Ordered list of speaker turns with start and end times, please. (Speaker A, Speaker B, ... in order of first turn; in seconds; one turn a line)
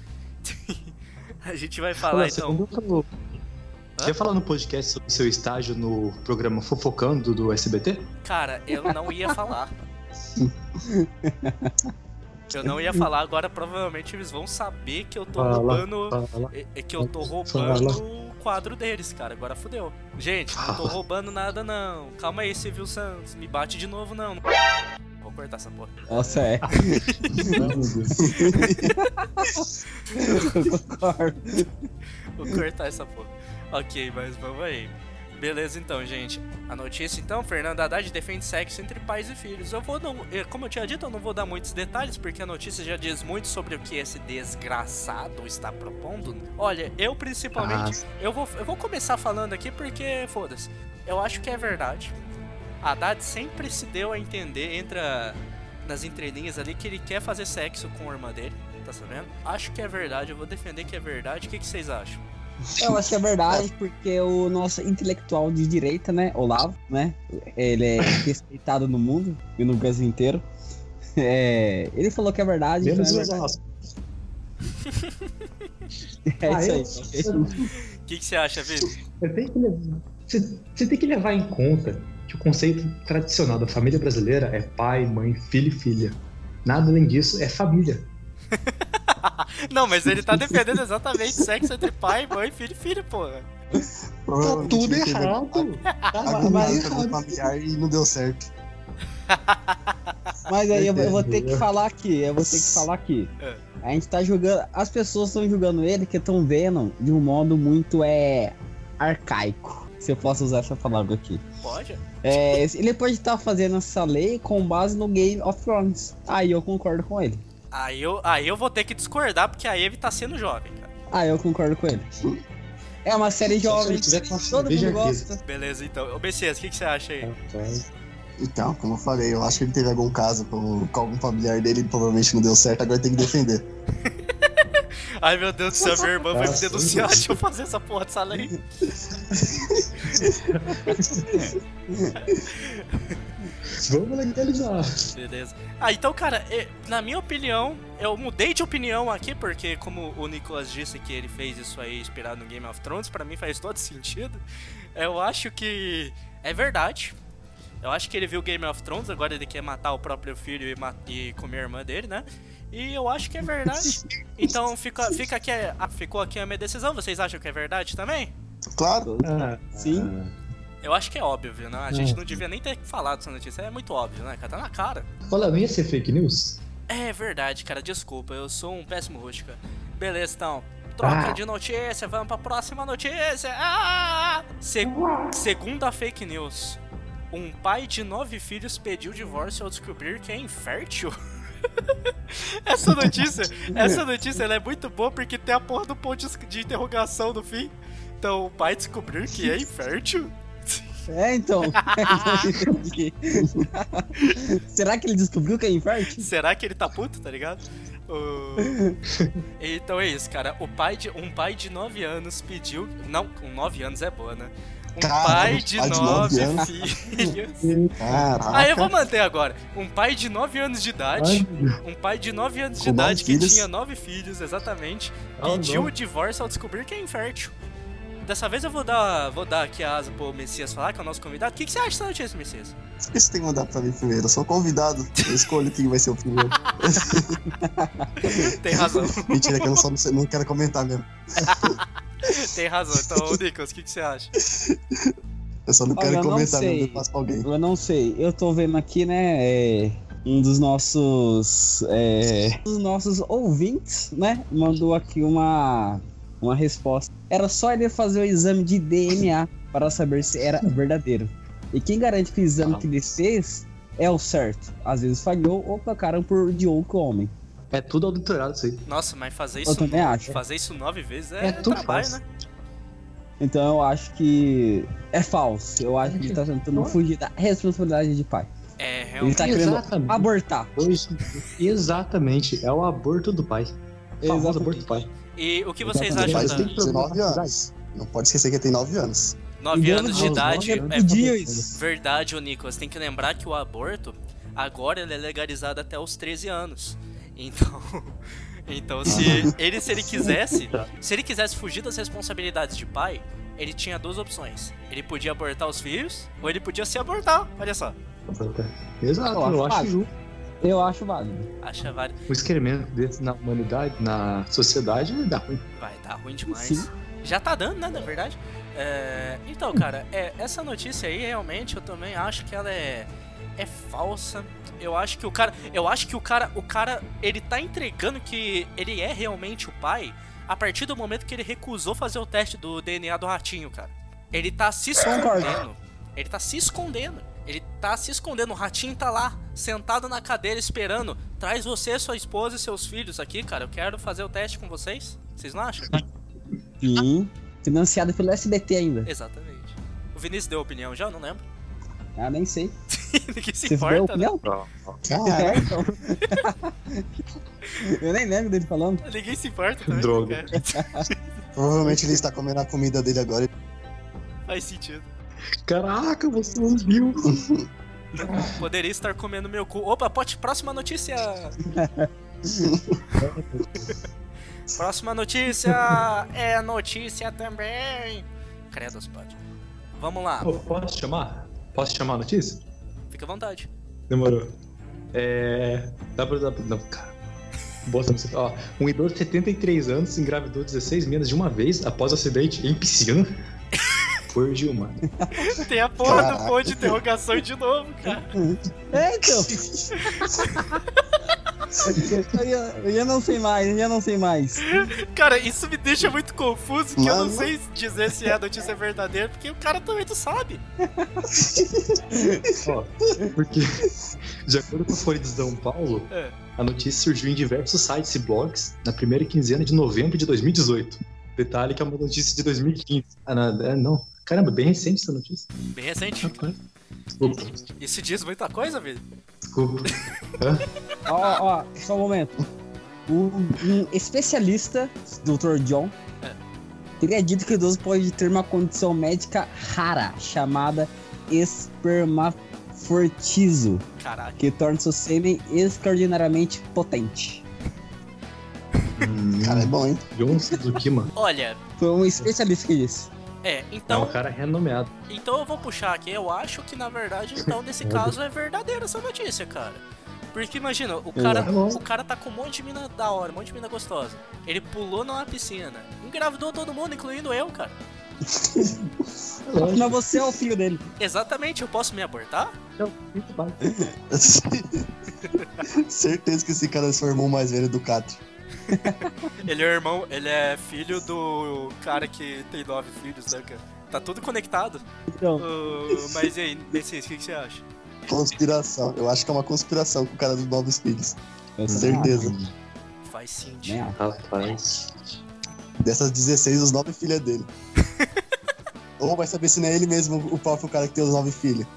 Speaker A: 0.4-2.6
Speaker B: 2.1-3.1
Speaker B: 4.0-8.1
Speaker A: 8.2-9.7
Speaker C: 10.9-11.9
Speaker A: 12.5-24.4
Speaker B: 15.4-18.0
Speaker B: 20.6-20.9
Speaker A: 25.2-27.6
Speaker C: 26.1-27.6
Speaker B: 27.4-28.2
Speaker D: 28.2-29.0
Speaker C: 28.3-31.9
Speaker A: 32.3-52.1
Speaker B: 47.5-48.0
Speaker A: 52.8-62.2
Speaker D: 62.8-63.6
Speaker C: 62.8-70.4
Speaker C: 71.2-73.5
Speaker B: 72.8-73.6
Speaker A: 74.8-75.1
Speaker C: 76.3-77.7
Speaker B: 76.4-77.7
Speaker A: 77.7-78.9
Speaker B: 79.2-88.1
Speaker A: 88.5-93.5
Speaker D: 94.2-98.5
Speaker B: 94.4-97.2
Speaker C: 96.3-96.9
Speaker A: 99.3-100.1
Speaker C: 100.5-103.3
Speaker D: 100.7-101.3
Speaker B: 101.1-101.6
Speaker D: 102.4-102.8
Speaker C: 103.8-111.4
Speaker A: 111.6-112.5
Speaker C: 112.2-117.4
Speaker A: 117.7-120.9
Speaker C: 121.1-122.3
Speaker C: 123.0-125.4
Speaker B: 123.5-125.3
Speaker A: 125.4-127.3
Speaker B: 127.2-127.8
Speaker D: 128.4-133.6
Speaker A: 134.0-138.6
Speaker B: 136.3-137.3
Speaker D: 139.3-140.2
Speaker B: 140.2-141.5
Speaker C: 141.9-142.2
Speaker A: 142.2-143.2
Speaker B: 143.7-145.1
Speaker A: 145.1-154.4
Speaker A: 154.9-157.1
Speaker A: 157.8-168.3
Speaker D: 168.7-169.1
Speaker C: 169.0-170.1
Speaker B: 169.2-170.3
Speaker A: 170.8-175.1
Speaker B: 171.9-172.4
Speaker B: 175.3-176.6
Speaker A: 176.9-186.8
Speaker B: 181.0-181.4
Speaker B: 184.8-185.3
Speaker A: 187.3-191.2
Speaker A: 191.8-200.8
Speaker C: 201.1-206.3
Speaker A: 201.8-202.5
Speaker A: 206.1-208.8
Speaker C: 208.6-208.9
Speaker B: 209.1-209.4
Speaker A: 209.6-217.7
Speaker D: 215.0-216.7
Speaker B: 215.8-216.2
Speaker B: 217.6-218.3
Speaker D: 218.0-218.9
Speaker A: 218.5-227.5
Speaker B: 221.2-221.8
Speaker D: 222.8-223.7
Speaker B: 225.4-225.9
Speaker A: 228.2-232.7
Speaker D: 233.1-237.4
Speaker A: 235.2-235.4
Speaker A: 236.9-237.2
Speaker C: 237.6-238.5
Speaker A: 238.2-239.8
Speaker D: 238.7-241.8
Speaker A: 241.4-244.3
Speaker D: 242.9-243.3
Speaker D: 244.4-245.1
Speaker D: 245.7-247.5
Speaker C: 245.9-267.3
Speaker B: 262.6-262.9
Speaker B: 267.7-268.8
Speaker A: 268.9-272.2
Speaker C: 269.6-270.4
Speaker B: 271.4-272.2
Speaker C: 273.4-278.5
Speaker B: 275.9-277.0
Speaker A: 278.8-279.6
Speaker C: 279.2-280.7
Speaker B: 279.4-285.1
Speaker C: 284.2-285.0
Speaker A: 285.4-286.7
Speaker B: 285.8-287.6
Speaker D: 286.1-289.4
Speaker A: 289.6-307.9
Speaker C: 289.7-291.8
Speaker B: 290.1-291.6
Speaker D: 299.1-299.5
Speaker B: 299.1-299.5
Speaker B: 308.3-310.1
Speaker C: 309.3-309.9
Speaker C: 310.6-311.5
Speaker A: 311.6-312.2
Speaker B: 312.3-315.6
Speaker A: 315.7-346.0
Speaker C: 316.5-316.9
Speaker C: 335.0-335.6
Speaker C: 346.8-349.1
Speaker A: 349.0-351.4
Speaker C: 352.1-352.7
Speaker A: 352.9-354.4
Speaker C: 353.7-354.4
Speaker B: 354.4-355.9
Speaker D: 355.0-355.7
Speaker C: 355.2-357.1
Speaker C: 357.8-359.0
Speaker A: 359.0-360.9
Speaker B: 359.9-360.6
Speaker C: 360.8-361.1
Speaker D: 361.5-363.5
Speaker A: 364.5-365.1
Speaker B: 365.6-367.4
Speaker B: 368.2-368.6
Speaker A: 368.4-371.6
Speaker C: 371.8-372.6
Speaker B: 373.2-373.9
Speaker A: 374.7-379.4
Speaker A: 379.9-380.6
Speaker B: 380.4-382.6
Speaker A: 383.1-383.7
Speaker B: 384.1-384.5
Speaker B: 385.1-387.1
Speaker B: 387.9-393.3
Speaker A: 393.8-394.0
Speaker B: 394.3-395.0
Speaker C: 395.2-395.5
Speaker A: 395.4-398.3
Speaker D: 396.0-396.9
Speaker C: 398.3-399.6
Speaker D: 399.4-399.9
Speaker A: 399.9-401.1
Speaker C: 401.8-404.8
Speaker A: 404.6-410.6
Speaker D: 407.0-407.5
Speaker C: 411.0-411.2
Speaker D: 411.3-412.2
Speaker C: 412.1-412.5
Speaker B: 412.6-413.9
Speaker B: 414.4-425.5
Speaker A: 425.7-426.5
Speaker B: 426.2-426.5
Speaker B: 427.2-427.5
Speaker A: 427.8-429.0
Speaker B: 429.5-430.7
Speaker C: 431.1-432.4
Speaker C: 433.1-435.9
Speaker C: 437.0-443.8
Speaker A: 444.0-444.4
Speaker C: 444.4-447.4
Speaker B: 449.0-451.1
Speaker D: 449.4-450.0
Speaker A: 451.1-451.6
Speaker C: 451.8-453.1
Speaker A: 453.4-454.2
Speaker B: 453.9-454.9
Speaker A: 455.1-467.8
Speaker B: 457.8-458.1
Speaker C: 461.1-461.5
Speaker B: 461.4-461.8
Speaker B: 469.4-470.0
Speaker C: 469.6-470.8
Speaker A: 471.0-472.6
Speaker B: 472.8-473.6
Speaker D: 474.1-474.9
Speaker D: 475.6-478.2
Speaker C: 478.7-479.1
Speaker A: 478.8-484.8
Speaker C: 485.1-485.5
Speaker A: 485.4-487.6
Speaker D: 488.1-491.2
Speaker C: 491.6-492.3
Speaker B: 491.7-492.5
Speaker D: 491.7-492.4
Speaker A: 493.0-494.0
Speaker C: 493.6-494.0
Speaker B: 494.0-494.9
Speaker D: 495.8-497.5
Speaker A: 497.9-498.2
Speaker D: 499.0-501.7